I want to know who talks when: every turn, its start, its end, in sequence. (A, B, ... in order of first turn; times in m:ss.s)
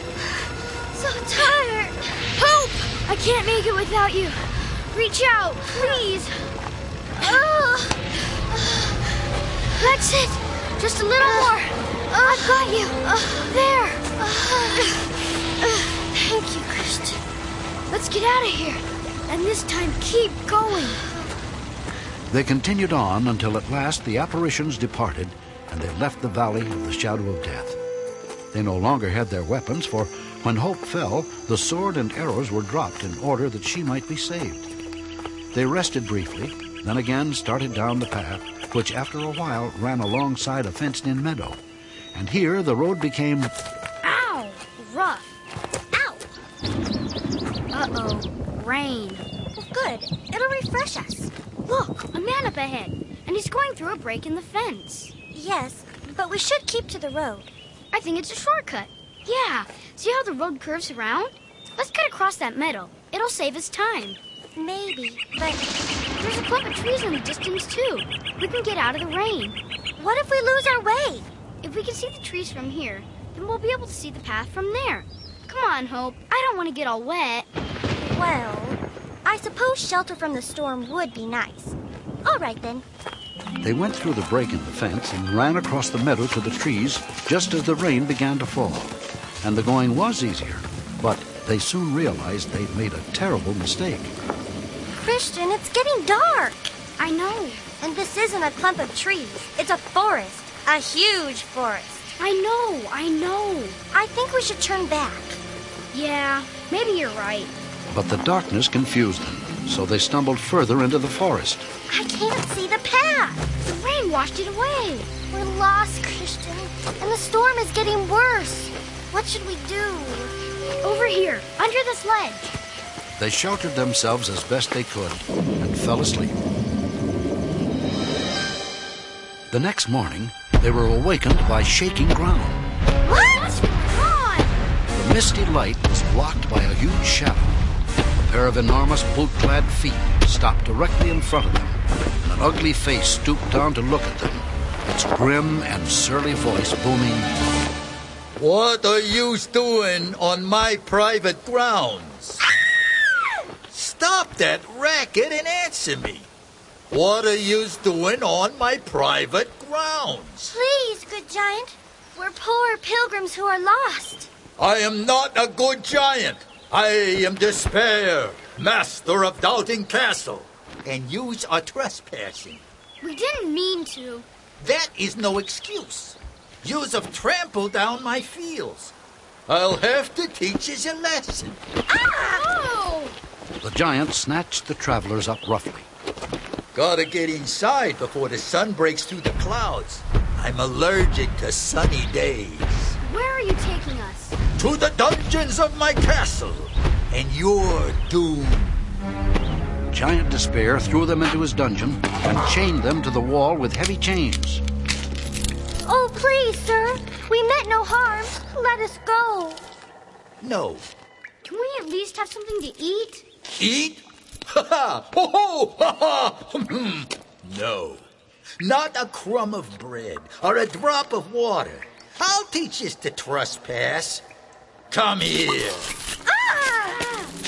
0:00.9-0:02.3 A
0:02.4-0:06.4 B
0:05.7-0:06.0 A
0:07.2-0:08.0 A
0:08.5-0:08.8 A
0:09.7-0:14.1 B
0:11.2-0:12.9 A
0:14.2-0:14.9 A
0:16.1-0:17.2 A
0:17.9-0:21.0 B
0:22.3-0:27.8 C
0:28.5-0:34.7 C
0:35.5-0:41.6 C
0:42.1-0:43.5 C
0:44.0-0:45.3 B
0:45.9-0:46.3 A
0:47.7-0:49.2 B
0:49.6-0:51.3 A
0:51.7-0:55.1 B
0:55.3-0:57.5 A
0:57.9-1:04.2 B
1:04.6-1:05.7 A
1:06.2-1:09.6 B
1:10.0-1:11.3 A
1:11.6-1:17.5 B
1:18.1-1:22.8 A
1:23.6-1:34.1 C
1:35.0-1:36.7 A
1:37.0-1:37.6 B
1:37.8-1:42.0 A
1:42.2-1:43.8 B
1:43.9-1:45.4 A
1:45.9-1:47.5 B
1:47.9-1:51.7 C
1:51.9-1:53.5 A
1:53.6-1:55.1 B
1:55.3-2:00.3 A
2:00.8-2:02.5 B
2:03.2-2:06.4 C
2:09.5-2:12.7 C
2:13.0-2:14.5 B
2:14.9-2:17.6 C
2:18.2-2:27.3 C
2:28.4-2:32.4 D
2:33.7-2:36.3 D
2:36.9-2:40.6 D
2:40.5-2:44.3 A
2:44.6-2:52.6 D
2:53.0-2:54.3 B
2:54.6-2:58.9 D
2:59.5-3:01.6 D
3:01.9-3:02.4 A
3:02.2-3:03.2 B
3:03.6-3:05.9 C
3:06.7-3:12.9 D
3:13.0-3:14.4 B
3:14.6-3:18.8 D
3:19.9-3:24.6 C
3:25.8-3:29.6 A
3:30.4-3:30.9 D
3:31.4-3:33.2 B
3:33.6-3:38.1 D
3:38.6-3:44.2 D
3:44.9-3:45.9 D
3:46.2-3:47.3 A